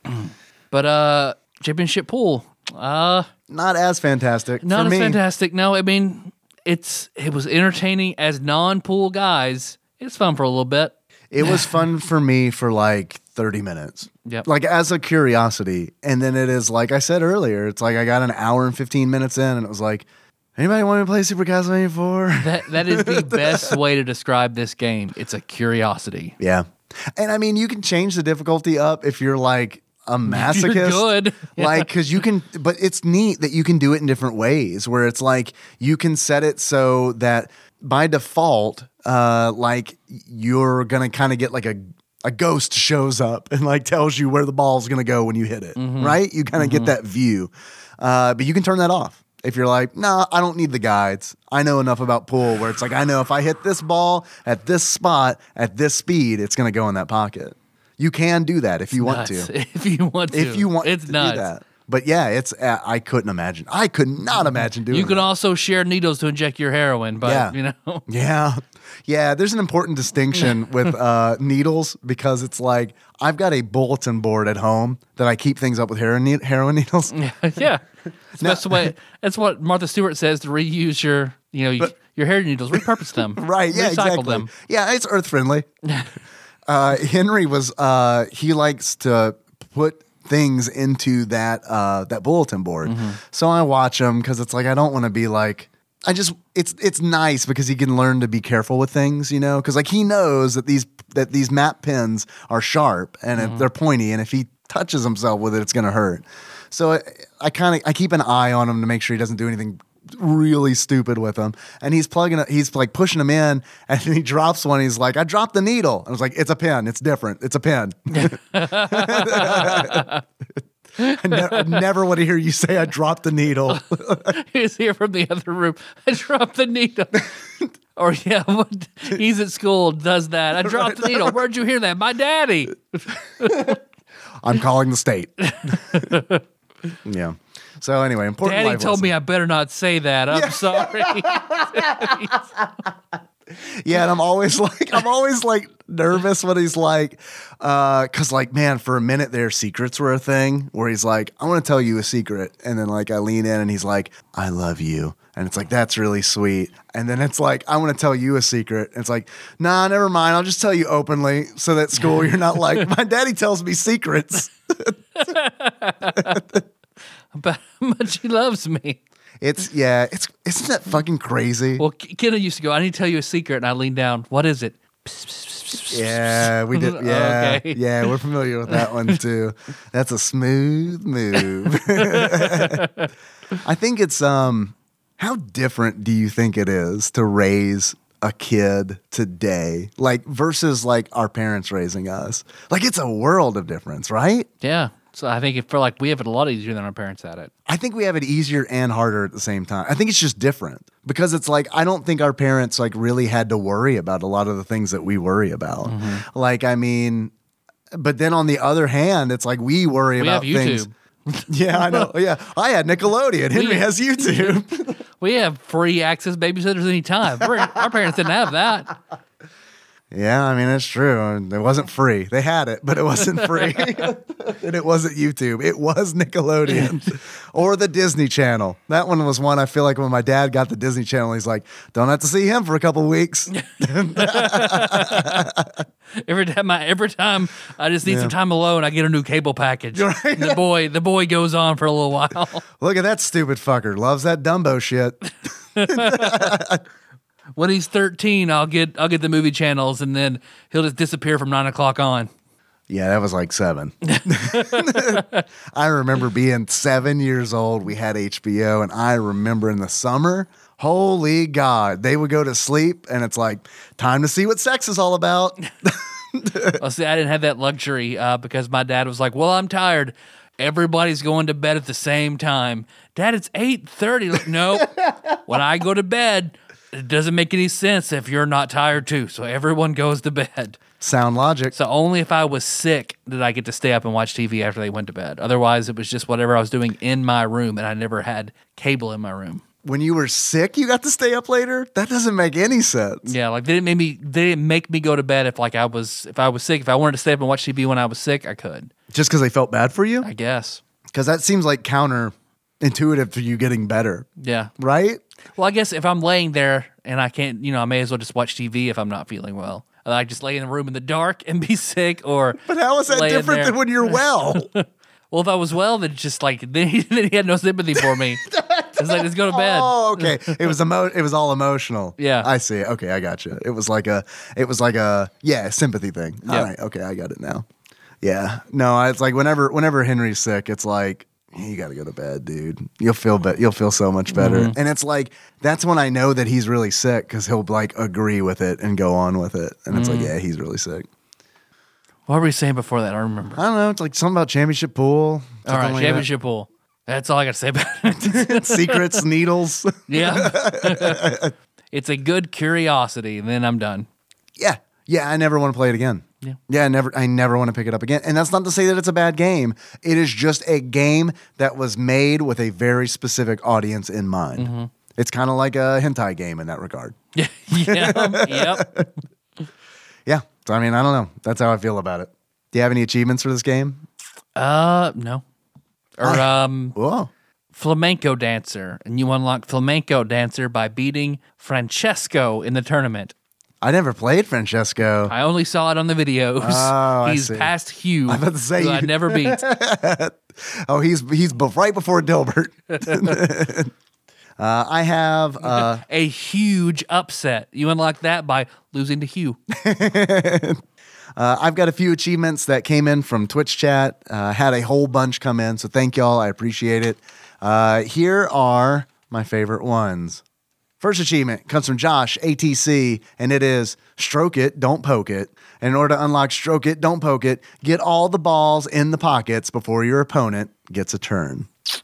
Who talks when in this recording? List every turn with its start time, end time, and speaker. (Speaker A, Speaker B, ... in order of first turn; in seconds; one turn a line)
Speaker A: 0.2-3.3
Speaker B: 3.5-5.2
Speaker A: 4.6-11.6
Speaker B: 11.3-20.1
Speaker B: 20.6-23.8
Speaker A: 22.4-26.4
Speaker B: 26.4-59.5
Speaker A: 30.3-31.9
Speaker A: 45.8-46.9
Speaker A: 59.0-61.5
Speaker B: 60.3-65.3
Speaker A: 64.9-68.0
Speaker B: 67.2-67.5
Speaker B: 68.1-77.1
Speaker A: 77.1-77.8
Speaker B: 78.4-78.9
Speaker A: 78.4-84.5
Speaker B: 82.7-85.7
Speaker B: 86.7-120.1
Speaker A: 92.8-93.2
Speaker A: 103.4-103.6
Speaker A: 118.1-120.2
Speaker A: 121.0-121.9
Speaker B: 121.0-124.4
Speaker A: 123.7-127.3
Speaker A: 128.0-133.8
Speaker B: 130.6-131.4
Speaker B: 133.4-133.8
Speaker B: 134.4-136.1
Speaker A: 135.4-136.4
Speaker B: 137.1-139.1
Speaker A: 138.4-142.4
Speaker B: 140.3-142.9
Speaker B: 143.6-165.3
Speaker A: 162.0-162.9
Speaker A: 165.2-166.4
Speaker B: 166.2-166.6
Speaker A: 167.3-169.0
Speaker B: 169.4-171.8
Speaker A: 171.8-178.1
Speaker B: 175.9-182.9
Speaker A: 178.7-179.2
Speaker A: 181.4-183.1
Speaker B: 183.6-194.5
Speaker A: 194.6-197.5
Speaker B: 197.7-207.3
Speaker A: 205.8-206.2
Speaker B: 207.9-210.9
Speaker A: 210.2-212.1
Speaker B: 211.5-215.0
Speaker A: 213.5-214.6
Speaker A: 215.2-218.9
Speaker B: 220.1-235.8
Speaker A: 223.4-223.9
Speaker A: 226.7-227.0
Speaker A: 233.5-235.5
Speaker A: 236.2-242.7
Speaker B: 238.1-238.3
Speaker B: 239.9-240.6
Speaker B: 242.8-245.2
Speaker A: 245.8-246.6
Speaker B: 245.9-246.8
Speaker A: 247.6-252.3
Speaker B: 252.9-266.8
Speaker A: 254.1-255.4
Speaker A: 266.7-280.8
Speaker B: 281.0-281.7
Speaker A: 281.7-289.6
Speaker B: 289.8-293.3
Speaker A: 293.3-298.9
Speaker B: 299.1-300.3
Speaker A: 300.2-300.8
Speaker B: 301.1-304.3
Speaker A: 304.4-304.7
Speaker B: 304.8-305.2
Speaker A: 305.6-320.7
Speaker B: 312.6-314.7
Speaker B: 318.0-327.6
Speaker A: 322.2-322.5
Speaker B: 328.2-341.1
Speaker A: 334.3-334.8
Speaker A: 339.9-340.3
Speaker A: 342.3-343.6
Speaker B: 343.6-346.3
Speaker A: 345.6-349.2
Speaker B: 348.2-351.5
Speaker A: 350.1-351.4
Speaker A: 351.9-354.1
Speaker B: 354.6-367.1
Speaker A: 364.6-364.9
Speaker A: 367.4-368.9
Speaker B: 367.7-369.1
Speaker B: 370.3-374.0
Speaker A: 374.6-375.4
Speaker A: 376.2-376.9
Speaker B: 376.2-377.3
Speaker A: 377.7-383.3
Speaker B: 383.8-385.3
Speaker A: 385.3-389.6
Speaker B: 386.6-387.7
Speaker B: 388.3-393.9
Speaker B: 394.6-396.0
Speaker A: 395.8-399.6
Speaker B: 399.7-400.8
Speaker B: 401.4-410.4
Speaker B: 411.0-421.7